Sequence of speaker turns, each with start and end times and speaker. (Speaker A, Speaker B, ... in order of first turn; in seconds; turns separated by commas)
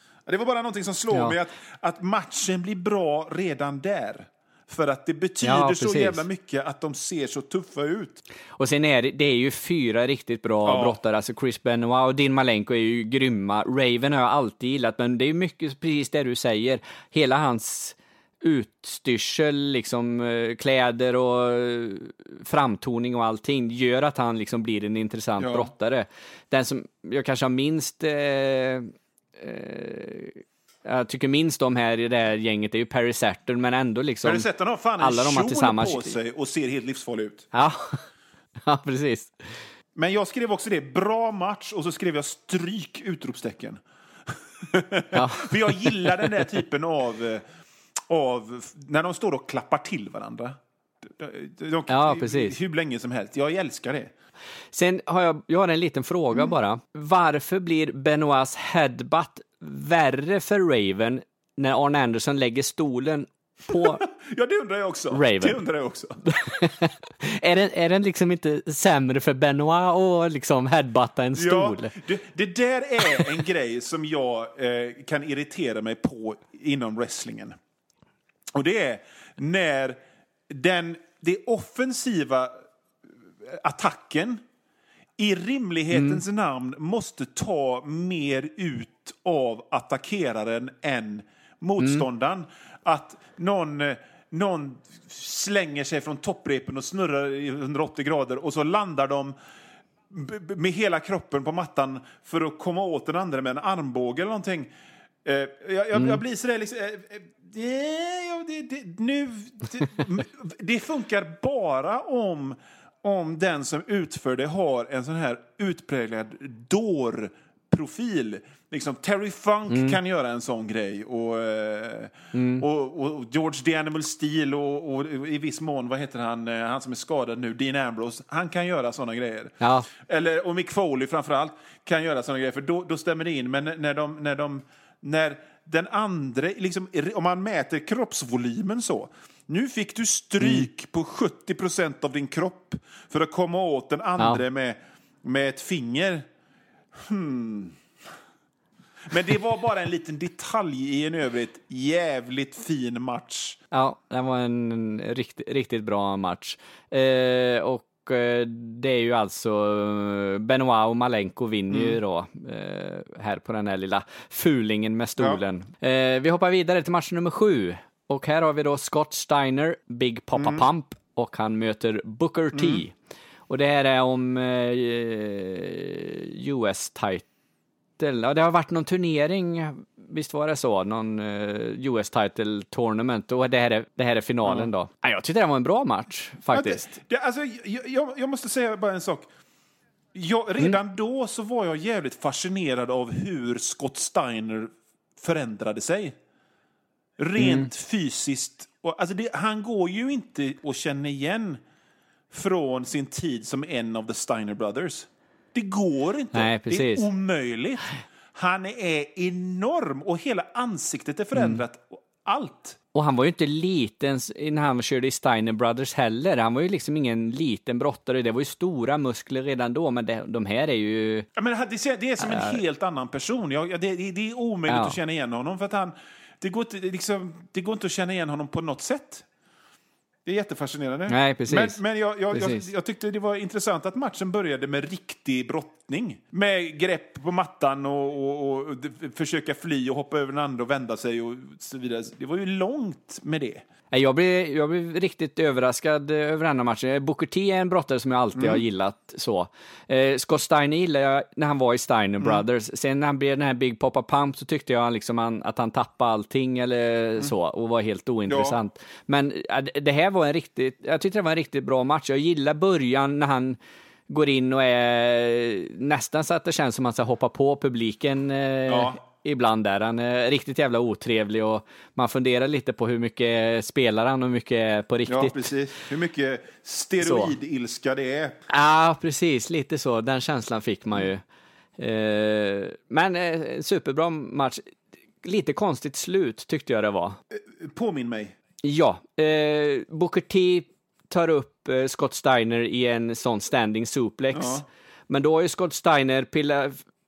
Speaker A: 0.3-8.2, Speaker B: 1.1-1.4, Speaker B: 5.4-6.2, Speaker B: 8.6-34.5, Speaker A: 10.7-11.0, Speaker A: 25.4-25.7, Speaker A: 34.2-37.5, Speaker B: 35.0-36.1, Speaker B: 37.5-38.0, Speaker B: 38.7-39.4, Speaker A: 40.0-47.5, Speaker B: 45.1-46.2, Speaker A: 48.1-54.1, Speaker B: 51.9-52.6, Speaker B: 54.7-64.0, Speaker A: 63.7-66.2, Speaker B: 65.1-65.6, Speaker B: 66.3-71.9, Speaker A: 71.3-77.6, Speaker A: 78.5-82.6, Speaker A: 83.4-84.4, Speaker A: 85.2-99.3, Speaker B: 85.9-86.2, Speaker B: 91.8-92.0, Speaker A: 100.1-104.7, Speaker A: 105.2-146.3, Speaker B: 119.7-120.0, Speaker B: 122.3-122.7, Speaker B: 129.6-129.9, Speaker A: 146.9-147.8, Speaker A: 149.1-153.6, Speaker B: 153.7-172.9, Speaker A: 161.7-162.0, Speaker A: 170.4-170.7, Speaker A: 172.5-172.8, Speaker B: 173.5-177.2, Speaker B: 178.0-186.9, Speaker A: 186.5-189.3, Speaker A: 190.1-196.2, Speaker A: 197.2-201.6, Speaker B: 197.4-197.7, Speaker A: 202.3-212.8, Speaker B: 206.3-207.1, Speaker B: 211.3-211.6, Speaker B: 212.9-221.3, Speaker A: 221.4-229.3, Speaker B: 222.2-222.6, Speaker B: 224.7-225.0, Speaker A: 230.2-243.6, Speaker B: 231.1-231.8, Speaker B: 232.3-232.7, Speaker B: 243.9-263.6, Speaker A: 248.3-248.6, Speaker A: 258.3-258.6, Speaker B: 264.1-275.5, Speaker A: 268.7-269.0, Speaker A: 275.1-278.4, Speaker B: 277.0-277.3, Speaker B: 278.5-281.2, Speaker B: 281.8-284.7, Speaker B: 285.2-287.2, Speaker A: 287.3-288.4, Speaker B: 288.6-296.8, Speaker A: 294.3-294.6